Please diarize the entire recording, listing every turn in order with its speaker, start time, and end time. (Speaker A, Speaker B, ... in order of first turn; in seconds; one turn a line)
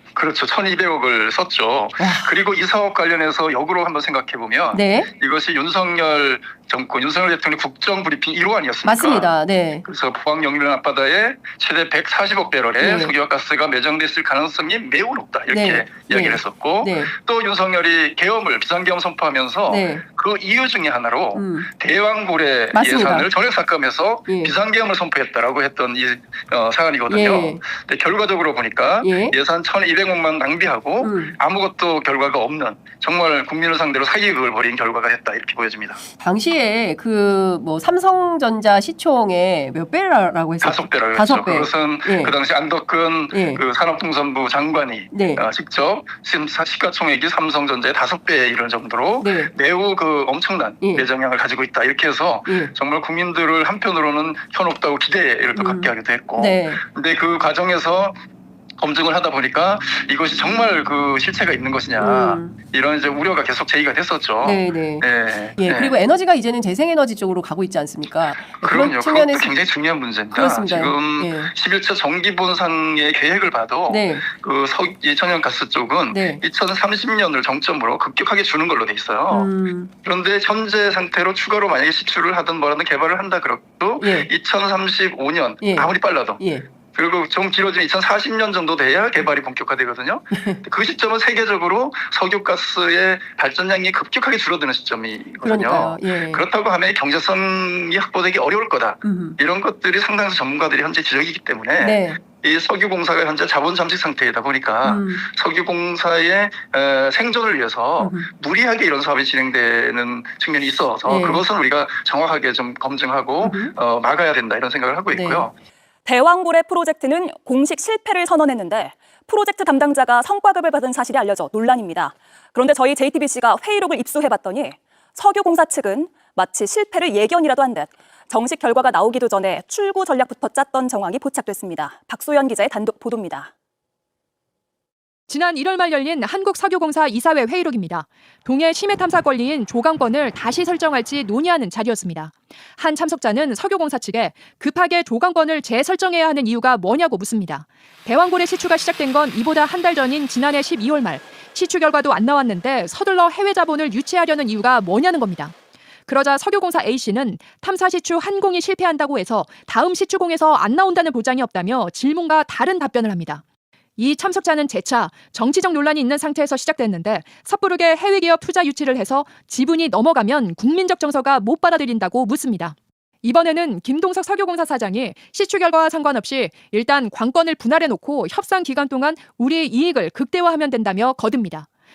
Speaker A: 0.2-9.3
Speaker B: 2.0-2.4
Speaker B: 4.7-5.1
Speaker B: 8.8-9.8
Speaker A: 9.8-36.0
Speaker B: 12.8-13.1
Speaker B: 15.5-17.1
Speaker B: 19.7-20.1
Speaker B: 21.4-21.7
Speaker B: 22.7-23.3
Speaker B: 24.3-24.6
Speaker B: 27.1-27.6
Speaker B: 29.0-29.4
Speaker B: 31.0-31.4
Speaker B: 36.2-42.4
Speaker A: 40.6-58.1
Speaker B: 43.3-43.6
Speaker B: 45.1-45.4
Speaker B: 49.2-49.5
Speaker B: 50.8-51.1
Speaker B: 52.5-52.7
Speaker B: 55.5-56.8
Speaker A: 58.8-66.0
Speaker B: 62.0-62.5
Speaker B: 64.4-69.5
Speaker A: 68.5-79.5
Speaker B: 70.3-71.5
Speaker B: 73.9-74.3
Speaker B: 76.1-76.4
Speaker B: 79.3-79.9
Speaker A: 80.0-86.4
Speaker B: 84.0-84.3
Speaker B: 85.6-86.7
Speaker A: 87.0-115.5
Speaker B: 90.3-90.6
Speaker B: 95.4-96.4
Speaker B: 99.0-99.4
Speaker B: 101.8-102.2
Speaker B: 104.8-105.2
Speaker B: 108.0-108.3
Speaker B: 111.0-111.4
Speaker B: 113.4-113.7
Speaker B: 115.1-115.5
Speaker C: 116.1-133.5
Speaker D: 135.3-155.5
Speaker D: 156.1-163.4
Speaker D: 164.0-181.7